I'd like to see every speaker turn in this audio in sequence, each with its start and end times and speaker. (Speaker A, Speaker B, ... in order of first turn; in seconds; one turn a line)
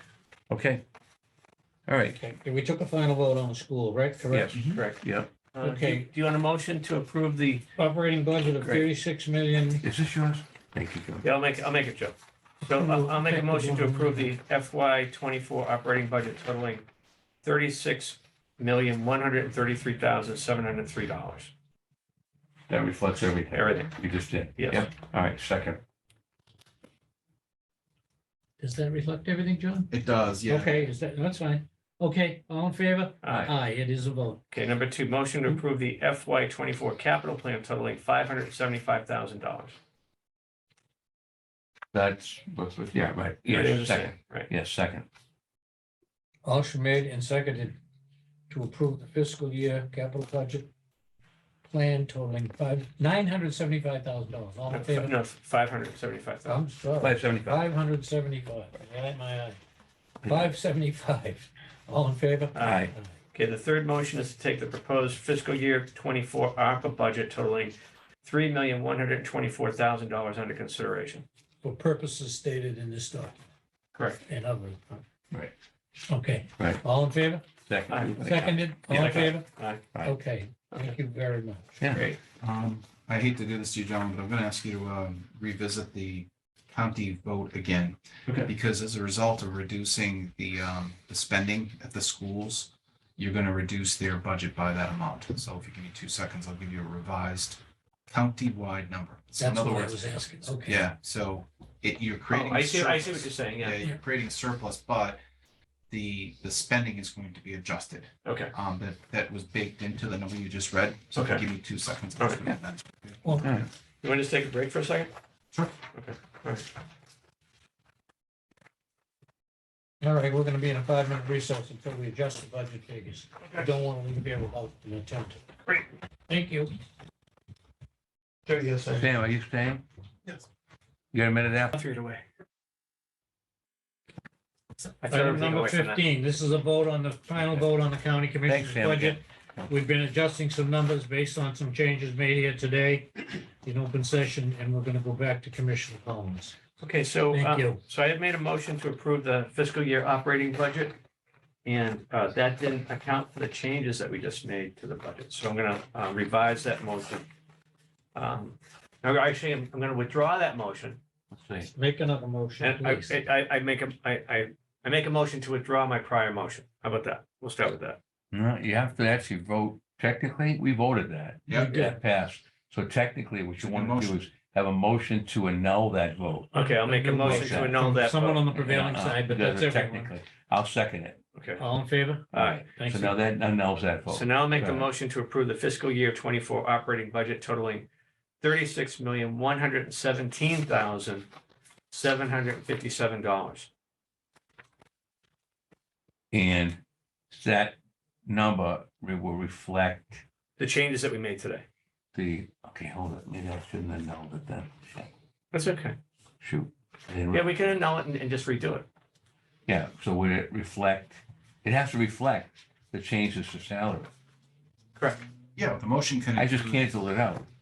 Speaker A: 0.5-0.8
Speaker A: 1.9-2.2
Speaker B: 2.1-4.8
Speaker A: 4.3-5.3
Speaker C: 4.6-5.0
Speaker C: 5.5-7.7
Speaker B: 5.6-6.0
Speaker B: 7.8-9.8
Speaker A: 9.8-11.3
Speaker C: 11.2-16.8
Speaker B: 12.7-14.3
Speaker C: 17.4-21.5
Speaker A: 22.7-25.8
Speaker C: 23.5-23.9
Speaker C: 24.6-24.9
Speaker B: 28.6-29.9
Speaker D: 29.9-30.9
Speaker B: 30.5-34.4
Speaker C: 33.2-33.5
Speaker C: 34.5-39.8
Speaker A: 41.9-45.1
Speaker C: 43.5-44.5
Speaker B: 46.4-47.8
Speaker B: 48.5-50.7
Speaker B: 51.6-55.1
Speaker C: 54.7-56.6
Speaker B: 56.5-59.6
Speaker A: 57.0-57.6
Speaker A: 60.2-60.5
Speaker B: 60.2-63.1
Speaker C: 62.5-71.2
Speaker A: 62.6-62.9
Speaker B: 71.6-73.3
Speaker C: 73.9-74.2
Speaker B: 74.2-75.0
Speaker B: 76.1-77.4
Speaker A: 77.7-79.0
Speaker C: 77.9-78.2
Speaker B: 78.2-79.4
Speaker C: 78.8-79.9
Speaker B: 80.0-81.7
Speaker A: 81.8-82.0
Speaker C: 81.9-82.2
Speaker D: 82.4-105.2
Speaker B: 99.4-100.8
Speaker C: 102.3-103.8
Speaker D: 105.9-113.2
Speaker C: 108.2-108.5
Speaker C: 111.1-111.4
Speaker A: 113.4-113.7
Speaker C: 114.0-115.1
Speaker C: 115.9-116.7
Speaker B: 120.0-125.4
Speaker B: 126.3-126.7
Speaker C: 128.4-129.1
Speaker A: 128.9-129.8
Speaker A: 131.1-131.8
Speaker C: 131.7-132.2
Speaker C: 135.0-136.2
Speaker B: 135.0-146.5
Speaker A: 138.4-139.7
Speaker C: 146.8-151.0
Speaker B: 147.3-147.8
Speaker C: 151.6-157.2
Speaker C: 158.1-161.0
Speaker A: 161.3-161.7
Speaker B: 161.7-163.2
Speaker C: 162.6-168.0
Speaker A: 168.3-176.5
Speaker D: 171.5-171.7
Speaker B: 171.5-172.0
Speaker D: 173.6-174.2
Speaker B: 176.5-180.1
Speaker C: 176.5-178.5
Speaker A: 177.1-177.9
Speaker A: 178.5-181.2
Speaker C: 181.3-181.6
Speaker B: 181.6-183.2
Speaker C: 182.3-182.6
Speaker A: 182.3-184.9
Speaker C: 184.1-187.9
Speaker C: 188.4-191.3
Speaker C: 191.9-193.7
Speaker A: 196.3-200.2
Speaker C: 200.6-201.6
Speaker A: 202.1-205.1
Speaker C: 205.5-205.9
Speaker A: 206.4-207.8
Speaker C: 207.3-208.9
Speaker A: 209.7-214.1
Speaker D: 215.6-216.8
Speaker A: 216.3-217.5